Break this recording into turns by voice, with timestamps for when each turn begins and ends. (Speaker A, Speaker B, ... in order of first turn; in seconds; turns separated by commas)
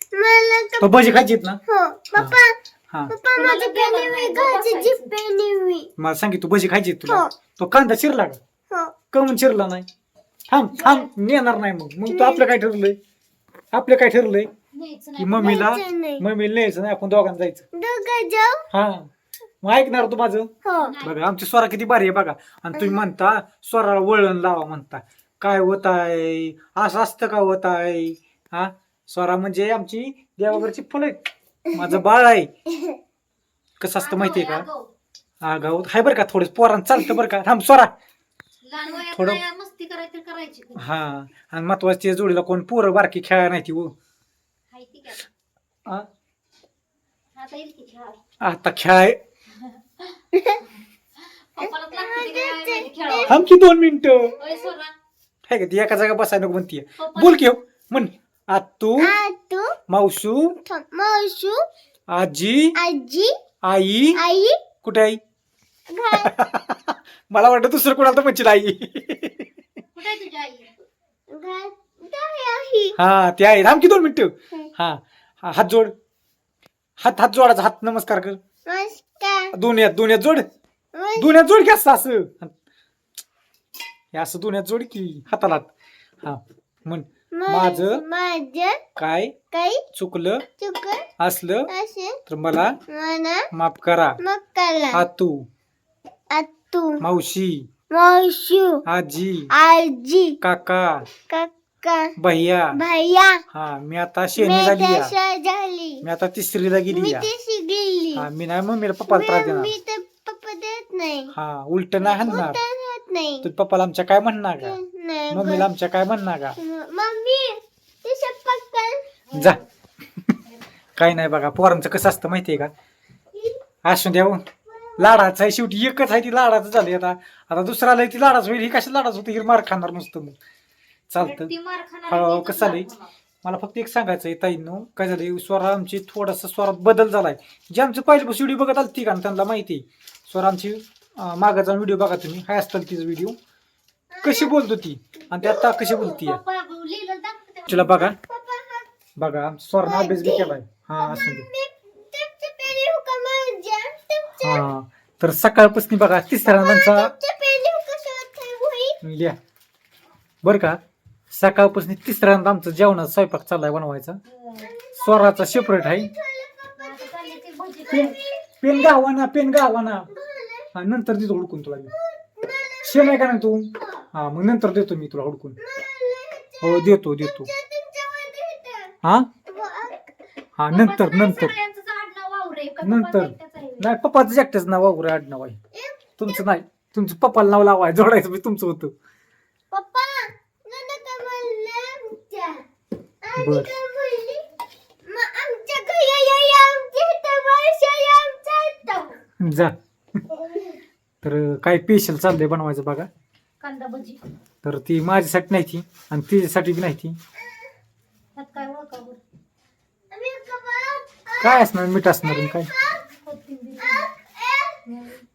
Speaker A: 0.1-0.9, Speaker B: 0.8-1.6, Speaker A: 1.7-2.5, Speaker A: 3.1-5.9, Speaker C: 3.3-5.1, Speaker B: 6.0-8.4, Speaker A: 7.1-7.3, Speaker A: 8.7-8.9, Speaker B: 9.1-9.8, Speaker B: 10.5-13.0, Speaker C: 10.7-11.1, Speaker A: 12.1-12.6, Speaker B: 13.7-14.5, Speaker C: 14.7-15.6, Speaker B: 15.2-17.6, Speaker A: 15.4-16.2, Speaker A: 17.7-18.7, Speaker B: 18.7-19.1, Speaker B: 19.6-20.5, Speaker A: 20.6-20.9, Speaker C: 20.8-21.1, Speaker B: 21.0-32.5, Speaker A: 22.8-23.0, Speaker A: 32.7-33.0, Speaker B: 33.8-34.7, Speaker C: 34.0-34.9, Speaker B: 35.4-37.9, Speaker C: 38.6-40.8, Speaker B: 39.1-39.4, Speaker B: 40.8-43.9, Speaker C: 44.7-45.3, Speaker C: 47.4-48.2, Speaker B: 48.4-49.2, Speaker C: 49.5-53.5, Speaker A: 51.9-53.3, Speaker B: 53.3-54.4, Speaker C: 54.4-54.9, Speaker B: 55.5-59.1, Speaker C: 57.0-57.4, Speaker A: 59.0-59.7, Speaker B: 59.9-60.5, Speaker A: 60.6-61.6, Speaker B: 62.1-62.8, Speaker A: 62.8-63.3, Speaker B: 63.6-64.2, Speaker A: 64.2-64.6, Speaker B: 64.8-65.2, Speaker A: 65.9-66.4, Speaker B: 66.2-69.5, Speaker C: 69.9-70.7, Speaker A: 71.3-73.0, Speaker B: 72.9-75.9, Speaker B: 77.0-78.4, Speaker A: 78.7-79.5, Speaker B: 79.5-80.4, Speaker A: 80.9-81.3, Speaker B: 81.2-82.5, Speaker B: 84.1-85.7, Speaker B: 86.2-88.0, Speaker A: 87.3-88.8, Speaker B: 89.0-89.3, Speaker A: 89.5-89.8, Speaker B: 89.9-90.4, Speaker A: 90.6-91.1, Speaker B: 91.2-91.7, Speaker A: 91.7-92.2, Speaker B: 92.3-92.8, Speaker A: 92.9-93.5, Speaker B: 93.5-94.2, Speaker A: 94.2-95.0, Speaker B: 94.9-95.5, Speaker A: 96.3-97.0, Speaker B: 97.0-97.7, Speaker A: 97.9-98.8, Speaker B: 98.8-99.5, Speaker A: 99.5-100.4, Speaker B: 100.4-101.1, Speaker A: 101.2-102.1, Speaker B: 102.2-102.8, Speaker A: 102.7-103.4, Speaker B: 103.5-105.1, Speaker A: 104.4-106.0, Speaker B: 106.0-107.3, Speaker A: 106.9-108.3, Speaker B: 108.1-109.7, Speaker A: 109.1-111.3, Speaker B: 111.3-112.6, Speaker A: 112.0-113.5, Speaker B: 113.4-114.8, Speaker A: 114.6-115.7, Speaker B: 115.3-116.6, Speaker A: 116.6-119.0, Speaker C: 119.3-119.6, Speaker B: 119.3-119.6, Speaker B: 121.0-122.7, Speaker A: 123.3-123.6, Speaker B: 123.8-124.4, Speaker B: 125.0-130.3, Speaker B: 131.1-131.5, Speaker C: 131.2-133.1, Speaker B: 132.1-132.9, Speaker B: 133.4-143.3, Speaker A: 144.1-144.6, Speaker B: 144.2-146.4, Speaker A: 145.3-146.2, Speaker C: 146.1-148.1, Speaker B: 147.7-148.2, Speaker A: 148.1-148.9, Speaker B: 149.2-151.5, Speaker A: 149.8-154.7, Speaker B: 154.4-157.1, Speaker A: 156.4-159.0, Speaker B: 159.0-159.4, Speaker B: 160.4-160.8, Speaker B: 161.3-164.2, Speaker C: 164.2-164.7, Speaker A: 164.6-167.4, Speaker B: 165.0-166.1, Speaker C: 166.8-168.2, Speaker A: 167.9-168.9, Speaker B: 167.9-170.1, Speaker A: 170.1-170.7, Speaker B: 170.7-171.9, Speaker A: 171.9-174.1, Speaker B: 172.8-175.6, Speaker A: 175.6-178.9, Speaker B: 176.6-177.5, Speaker B: 179.0-179.3, Speaker A: 179.4-180.1, Speaker B: 180.6-181.5, Speaker C: 180.7-183.9, Speaker B: 182.8-185.6, Speaker A: 185.7-186.4, Speaker B: 186.2-188.9, Speaker A: 189.7-192.6, Speaker A: 193.2-194.4, Speaker B: 193.3-193.7, Speaker A: 195.1-199.2, Speaker B: 199.4-199.7, Speaker A: 200.3-200.8, Speaker B: 201.2-203.1, Speaker C: 203.6-204.2, Speaker B: 204.6-207.2, Speaker C: 208.3-209.2, Speaker A: 210.1-211.7, Speaker B: 211.4-212.7, Speaker A: 212.2-213.0, Speaker C: 213.2-214.1, Speaker A: 213.8-214.8, Speaker C: 214.8-215.2